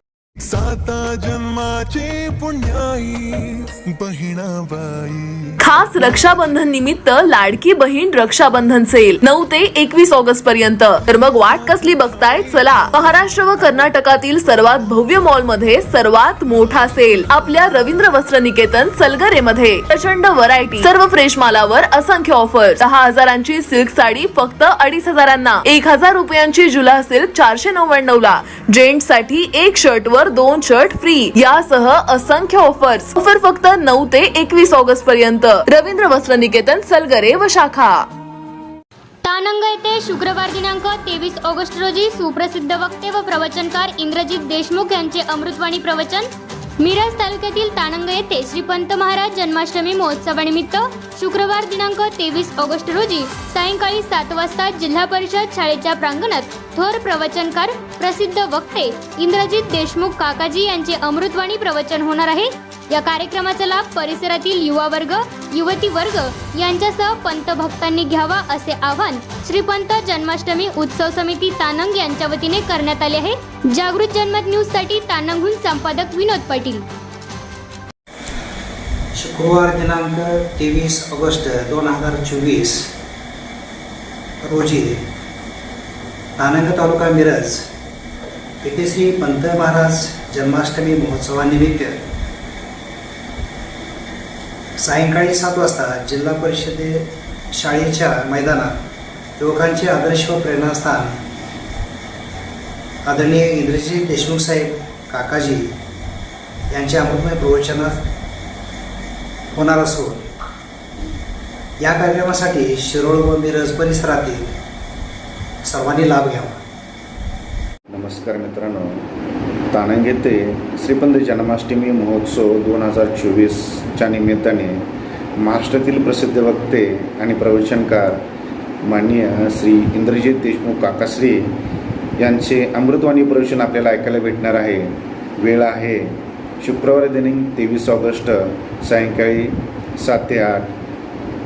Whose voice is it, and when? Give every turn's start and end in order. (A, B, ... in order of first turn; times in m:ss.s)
0:00.4-0:05.4 A
0:05.6-0:38.1 B
0:11.4-0:13.9 A
0:39.2-0:46.3 C
0:46.8-1:16.8 C
1:19.2-1:22.9 D
1:24.4-1:25.0 D
1:26.4-1:27.6 D
1:28.6-1:32.0 D
1:34.8-1:38.7 D
1:39.4-1:41.2 D
1:43.0-1:45.7 D
1:46.7-1:48.0 D
1:49.5-1:50.3 D
1:51.8-1:54.5 D
1:55.6-1:56.6 D
1:57.9-1:59.0 E
1:59.7-2:04.8 E
2:05.4-2:08.2 E
2:08.8-2:11.5 E
2:12.2-2:20.7 E